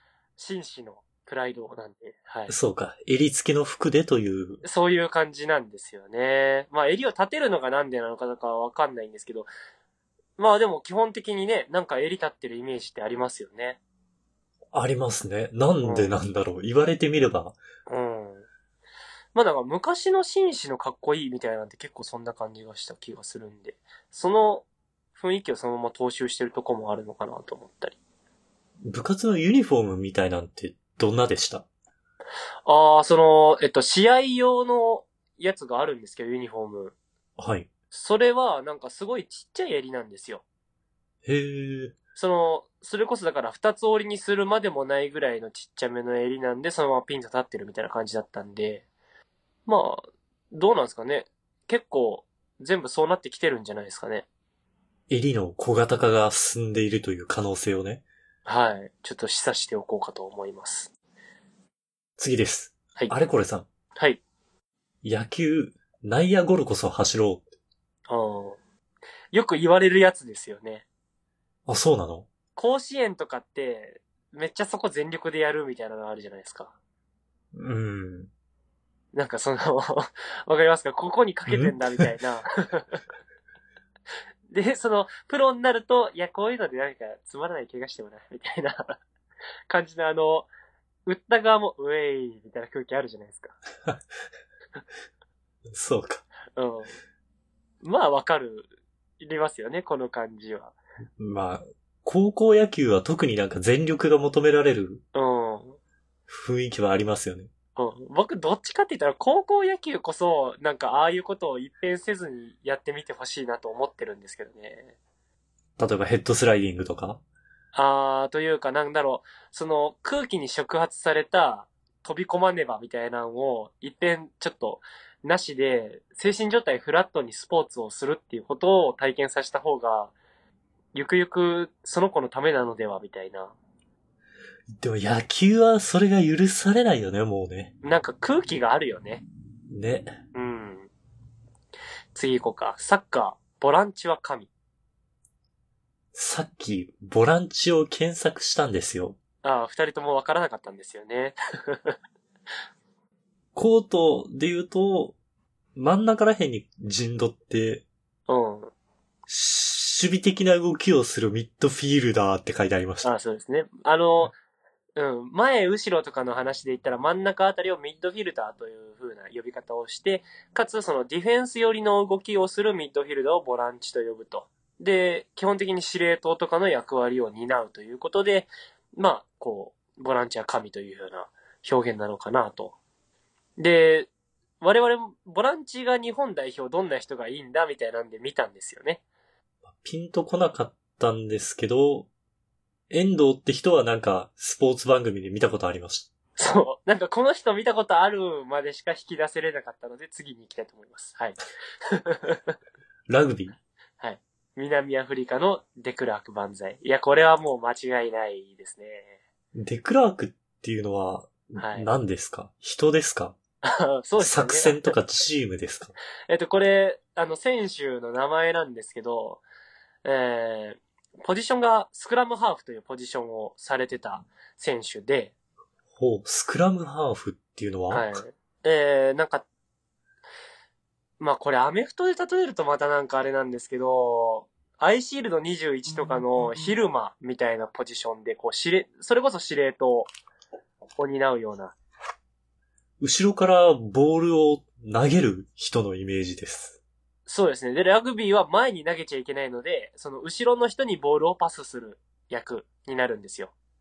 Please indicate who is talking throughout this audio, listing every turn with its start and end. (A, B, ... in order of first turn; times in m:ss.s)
0:00.4-0:02.5 A
0:02.5-0:04.6 B
0:04.6-0:09.5 A
0:10.4-0:13.8 A
0:14.7-0:17.6 B
0:15.8-0:16.1 A
0:17.9-0:18.5 A
0:19.3-0:28.0 A
0:28.8-0:31.6 B
0:32.6-0:36.9 A
0:37.4-0:37.7 B
0:37.9-0:40.4 A
0:41.2-0:41.9 B
0:42.2-0:48.8 A
0:49.6-0:54.2 A
0:55.1-0:58.0 B
0:58.4-1:00.9 A
1:02.2-1:03.6 B
1:05.0-1:07.5 B
1:08.1-1:08.6 A
1:09.3-1:10.8 A
1:11.6-1:12.3 B
1:12.6-1:16.7 A
1:17.5-1:18.3 B
1:19.1-1:23.0 A
1:21.5-1:22.1 B
1:24.5-1:29.0 A
1:29.7-1:30.5 A
1:31.0-1:33.6 A
1:35.7-1:36.2 B
1:36.6-1:36.9 A
1:37.8-1:38.7 A
1:39.2-1:40.7 A
1:41.2-1:45.0 B
1:45.1-1:45.8 A
1:46.3-1:47.5 B
1:47.8-1:54.9 A
1:55.8-1:57.2 B
1:57.7-2:10.1 A
2:10.9-2:13.5 A
2:14.8-2:17.7 B
2:17.8-2:19.2 A
2:19.7-2:20.1 B
2:20.3-2:20.9 A
2:22.1-2:24.5 A
2:26.1-2:29.2 B
2:29.4-2:32.0 A
2:33.5-2:35.2 B
2:35.7-2:37.8 B
2:38.3-2:38.7 A
2:39.3-2:43.1 B
2:43.0-2:44.3 A
2:45.0-3:02.8 A
3:03.6-3:04.1 A
3:04.6-3:09.0 A
3:09.6-3:12.1 B
3:12.9-3:16.1 B
3:16.4-3:22.5 A
3:23.1-3:23.6 B
3:24.0-3:29.2 A
3:29.5-3:33.4 B
3:31.6-3:31.9 A
3:33.6-3:34.9 A
3:34.2-3:35.9 B
3:36.3-3:39.4 A
3:40.0-3:45.3 A
3:46.0-3:48.2 B
3:47.9-3:49.4 A
3:51.2-4:00.1 A
4:01.0-4:01.7 A
4:03.0-4:06.8 B
4:07.3-4:13.5 A